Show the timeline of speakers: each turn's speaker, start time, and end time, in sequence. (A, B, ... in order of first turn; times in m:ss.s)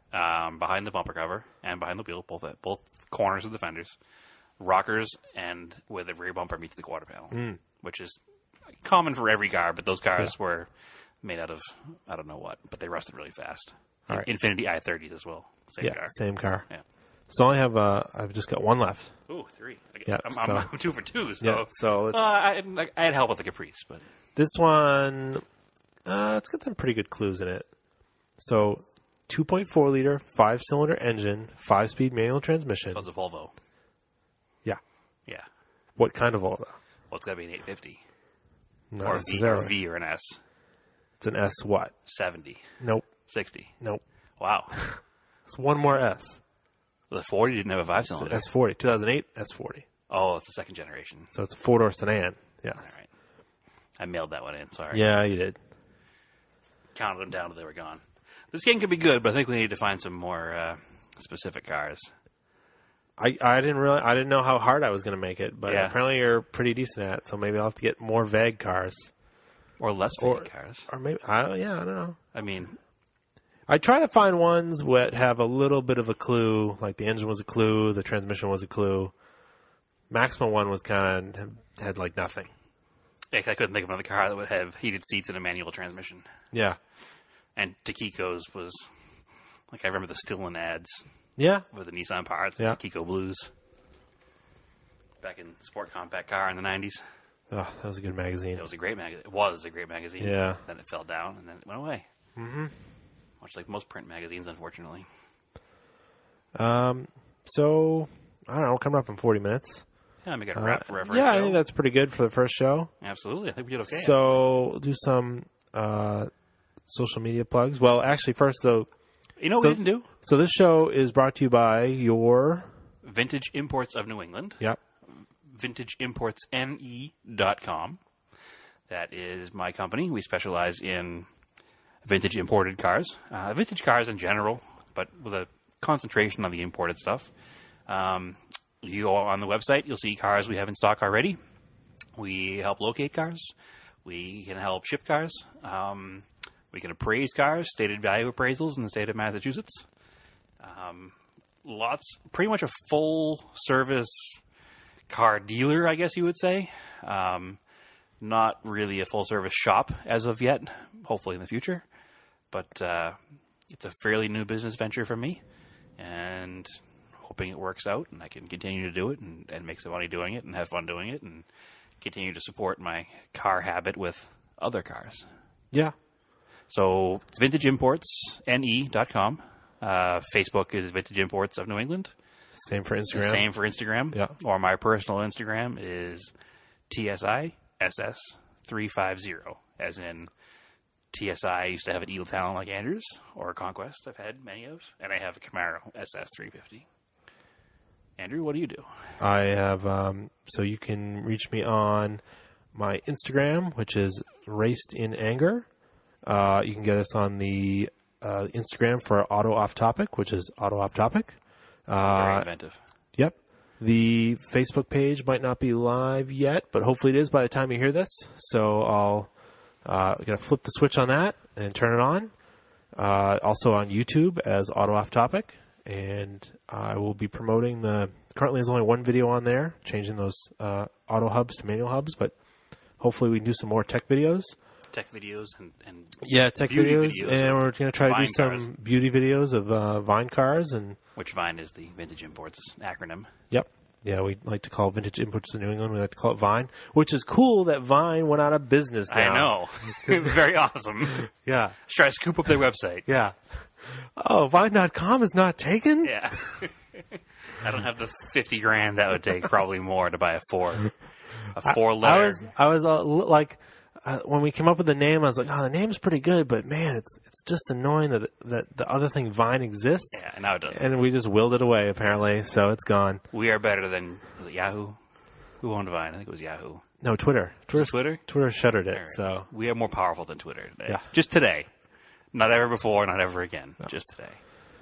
0:00.1-0:04.0 A
0:04.6-0:08.2 A
0:07.3-0:07.6 B
0:08.8-0:10.7 A
0:11.2-0:16.1 A
0:15.8-0:16.6 B
0:17.3-0:19.1 B
0:19.3-0:24.0 A
0:20.1-0:20.7 B
0:21.4-0:22.3 B
0:24.4-0:25.4 B
0:26.0-0:27.7 B
0:28.4-0:33.0 B
0:32.9-0:33.5 A
0:36.0-0:36.7 B
0:37.1-0:38.0 A
0:38.9-0:39.7 B
0:39.0-0:40.4 A
0:41.2-0:41.9 B
0:42.0-0:42.6 A
0:42.8-0:43.1 B
0:43.3-0:43.7 A
0:44.4-0:44.8 A
0:44.7-0:46.4 B
0:47.1-0:48.4 A
0:48.2-0:49.8 B
0:50.1-0:51.3 A
0:51.3-0:52.8 B
0:52.8-0:53.1 A
0:54.0-0:55.0 A
0:54.9-0:55.6 B
0:56.9-1:02.1 A
1:03.2-1:09.1 B
1:05.7-1:06.0 A
1:09.8-1:10.9 A
1:10.2-1:12.2 B
1:12.3-1:12.8 A
1:13.7-1:19.1 B
1:20.1-1:22.5 B
1:23.3-1:26.2 A
1:26.5-1:26.8 B
1:27.6-1:28.9 A
1:29.7-1:31.1 A
1:31.4-1:31.6 B
1:31.7-1:33.5 A
1:35.2-1:37.0 A
1:37.5-1:38.6 B
1:38.5-1:42.1 A
1:40.2-1:40.6 B
1:42.4-1:42.7 B
1:43.4-1:45.0 A
1:46.5-1:49.8 B
1:50.2-1:51.6 A
1:50.5-1:52.9 B
1:53.0-1:54.2 A
1:53.9-1:56.3 B
1:56.9-1:58.9 B
1:59.4-2:00.1 A
1:59.6-2:02.7 B
2:03.0-2:04.6 A
2:05.4-2:08.0 A
2:08.9-2:11.3 A
2:12.0-2:17.3 A
2:17.9-2:21.4 A
2:22.2-2:23.5 A
2:24.0-2:29.8 A
2:30.6-2:34.4 A
2:35.1-2:37.6 A
2:38.2-2:41.8 A
2:42.5-2:43.2 A
2:43.7-2:45.4 A
2:46.0-2:51.4 A
2:52.0-2:55.2 A
2:56.7-3:02.1 A
3:02.5-3:03.5 B
3:03.1-3:06.3 A
3:06.9-3:10.3 A
3:11.1-3:16.8 A
3:18.2-3:18.8 A
3:19.2-3:22.2 B
3:22.7-3:25.7 B
3:26.2-3:31.4 B
3:31.9-3:32.4 B
3:32.0-3:32.8 A
3:33.2-3:39.3 B
3:39.8-3:42.3 B
3:42.9-3:52.3 B
3:53.0-3:54.6 B
3:54.9-3:58.7 A
3:56.2-4:01.0 B
4:01.2-4:03.3 A
4:03.5-4:10.4 B
4:09.1-4:11.3 A
4:11.2-4:11.8 B
4:11.8-4:13.1 A
4:13.1-4:16.2 B
4:16.0-4:20.9 A
4:21.5-4:22.4 A
4:21.6-4:33.2 B
4:30.1-4:30.8 A
4:33.3-4:35.0 A
4:35.6-4:36.8 A
4:37.0-4:39.5 B
4:37.7-4:38.2 A
4:38.9-4:41.7 A
4:42.3-4:44.4 A